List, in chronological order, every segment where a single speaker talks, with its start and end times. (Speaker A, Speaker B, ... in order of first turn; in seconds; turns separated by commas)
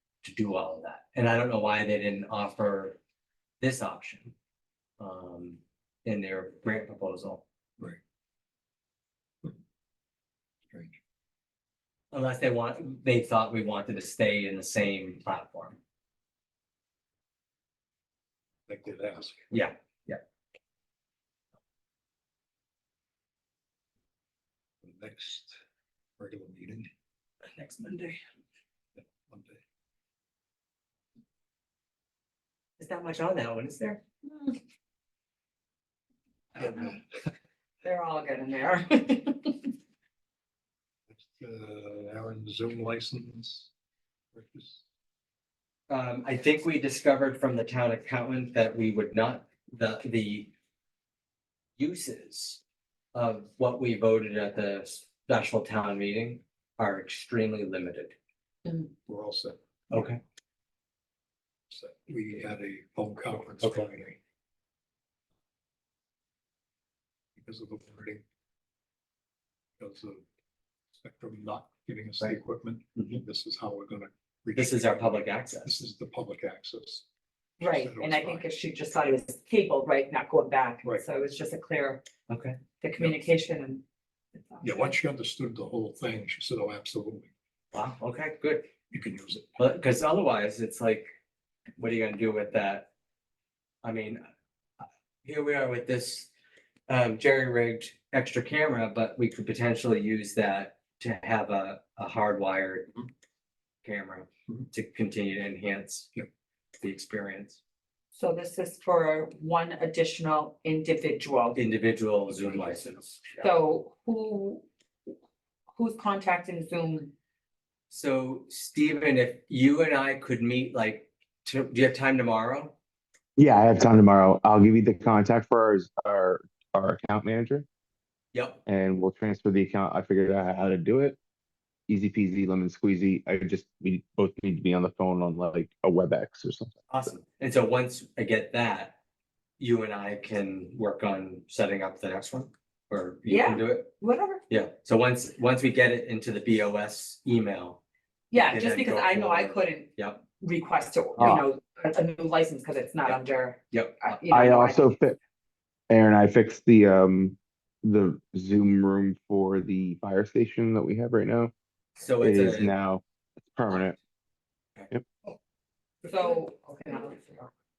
Speaker A: 0.2-3.0, Speaker A: 3.6-4.3, Speaker A: 5.0-7.4, Speaker A: 12.1-15.8, Speaker B: 18.7-19.5, Speaker A: 19.5-20.2, Speaker B: 24.8-25.5, Speaker B: 26.2-26.9, Speaker A: 27.5-28.2, Speaker B: 29.3-29.6, Speaker A: 32.8-34.0, Speaker C: 34.3-34.5, Speaker B: 36.5-37.0, Speaker C: 37.8-39.7, Speaker B: 41.1-43.7, Speaker B: 44.3-44.8, Speaker A: 45.9-50.5, Speaker A: 51.8-52.6, Speaker A: 53.1-58.1, Speaker B: 59.1-59.6, Speaker A: 59.9-60.2, Speaker B: 61.7-64.2, Speaker B: 67.3-68.2, Speaker B: 69.8-70.2, Speaker B: 70.9-77.0, Speaker A: 73.0-73.2, Speaker A: 74.5-75.8, Speaker B: 77.6-78.5, Speaker C: 77.6-82.0, Speaker A: 82.3-82.6, Speaker C: 82.8-83.8, Speaker C: 84.3-85.0, Speaker B: 84.6-87.3, Speaker A: 87.7-88.7, Speaker B: 88.9-89.7, Speaker A: 89.6-91.1, Speaker A: 91.8-92.9, Speaker A: 93.8-94.2, Speaker A: 94.8-96.3, Speaker A: 96.9-103.0, Speaker A: 103.8-106.2, Speaker A: 106.8-107.6, Speaker C: 108.1-111.6, Speaker A: 111.5-113.5, Speaker C: 113.4-114.7, Speaker C: 115.7-117.1, Speaker A: 117.9-122.8, Speaker D: 123.4-127.7, Speaker A: 128.3-128.6, Speaker D: 128.7-131.2, Speaker D: 131.9-136.8, Speaker A: 136.9-139.0, Speaker A: 139.6-143.9, Speaker C: 143.2-144.4, Speaker A: 144.5-147.8, Speaker C: 148.3-154.9, Speaker A: 148.4-150.2, Speaker A: 153.7-154.2, Speaker D: 154.3-155.2, Speaker D: 155.9-161.5, Speaker A: 162.0-162.7, Speaker D: 162.2-164.0, Speaker B: 166.0-166.4, Speaker C: 166.1-167.5